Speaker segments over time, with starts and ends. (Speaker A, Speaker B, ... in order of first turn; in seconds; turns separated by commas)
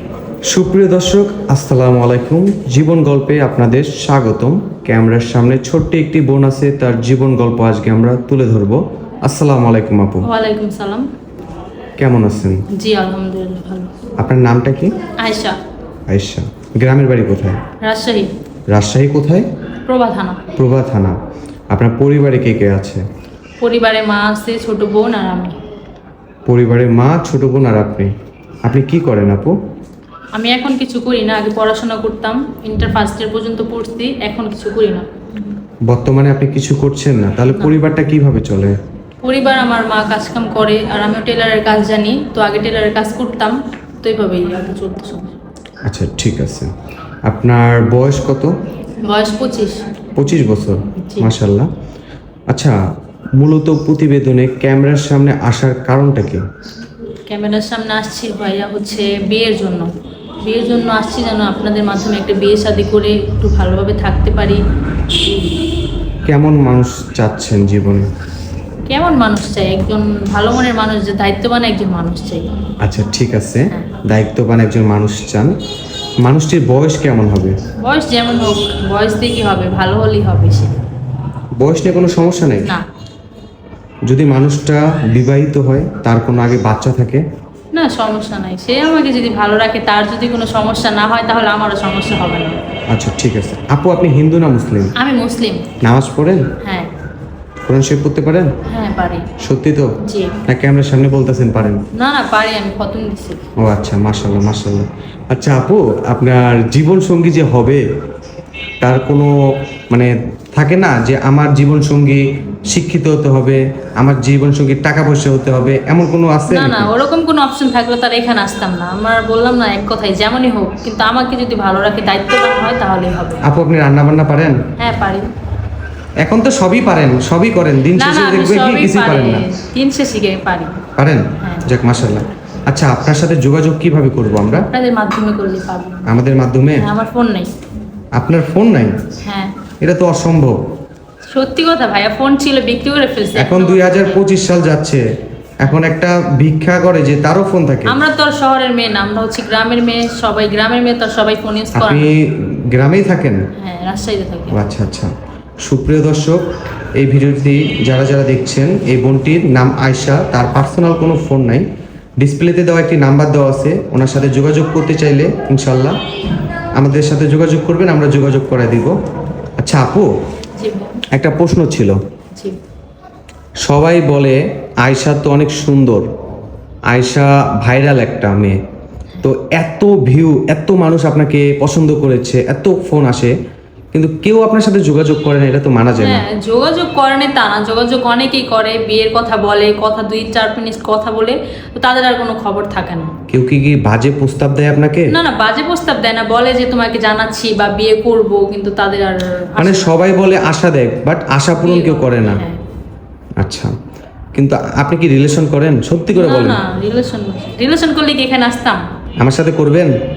Speaker A: 0.5-10.2, Speaker B: 10.2-11.1, Speaker A: 12.0-12.6, Speaker B: 12.7-13.9, Speaker A: 14.2-14.9, Speaker B: 15.2-15.6, Speaker A: 16.1-17.6, Speaker B: 17.8-18.3, Speaker A: 18.7-19.4, Speaker B: 19.9-20.4, Speaker A: 20.6-21.1, Speaker A: 21.7-23.0, Speaker B: 23.6-25.6, Speaker A: 26.5-28.1, Speaker A: 28.6-29.5, Speaker B: 30.3-35.0, Speaker A: 35.9-38.7, Speaker B: 39.2-45.4, Speaker A: 45.9-46.7, Speaker A: 47.2-48.5, Speaker B: 49.0-49.8, Speaker A: 50.1-51.7, Speaker B: 51.0-51.3, Speaker A: 52.5-52.8, Speaker A: 53.4-56.4, Speaker B: 57.3-59.9, Speaker B: 60.4-64.6, Speaker A: 66.3-68.1, Speaker B: 68.9-72.5, Speaker A: 72.8-75.5, Speaker A: 76.2-77.5, Speaker B: 77.8-80.7, Speaker A: 81.6-82.7, Speaker A: 84.1-87.2, Speaker B: 87.7-92.5, Speaker A: 92.9-94.9, Speaker B: 95.0-95.7, Speaker A: 95.8-96.5, Speaker B: 96.6-96.9, Speaker A: 97.7-98.5, Speaker B: 98.7-99.3, Speaker A: 99.4-99.9, Speaker B: 100.0-100.4, Speaker A: 100.5-101.8, Speaker B: 101.9-103.4, Speaker A: 103.6-107.8, Speaker A: 108.8-109.3, Speaker A: 109.9-116.9, Speaker B: 116.5-123.4, Speaker A: 123.4-124.6, Speaker B: 124.8-125.3, Speaker A: 126.2-129.5, Speaker B: 127.9-130.8, Speaker A: 131.0-134.7, Speaker B: 131.4-131.7, Speaker B: 134.7-136.1, Speaker A: 136.1-136.9, Speaker B: 136.8-137.5, Speaker A: 138.2-139.0, Speaker B: 139.2-139.5, Speaker A: 139.8-140.6, Speaker B: 141.3-144.2, Speaker A: 143.3-145.0, Speaker A: 145.6-148.0, Speaker B: 147.9-152.1, Speaker A: 151.7-153.4, Speaker B: 153.6-154.6, Speaker A: 154.5-155.1, Speaker A: 155.6-156.4, Speaker A: 157.0-161.6, Speaker A: 162.2-165.9, Speaker A: 166.8-168.9, Speaker A: 169.6-170.1, Speaker B: 170.6-171.0, Speaker A: 171.1-172.0, Speaker A: 173.6-176.1, Speaker A: 176.9-178.6, Speaker A: 179.2-183.3, Speaker A: 183.9-186.2, Speaker B: 186.0-193.1, Speaker A: 193.3-195.1, Speaker B: 195.1-199.9, Speaker A: 199.6-202.4, Speaker B: 201.6-202.6, Speaker A: 203.4-203.7, Speaker A: 204.3-206.6, Speaker B: 206.1-208.8, Speaker A: 209.2-209.9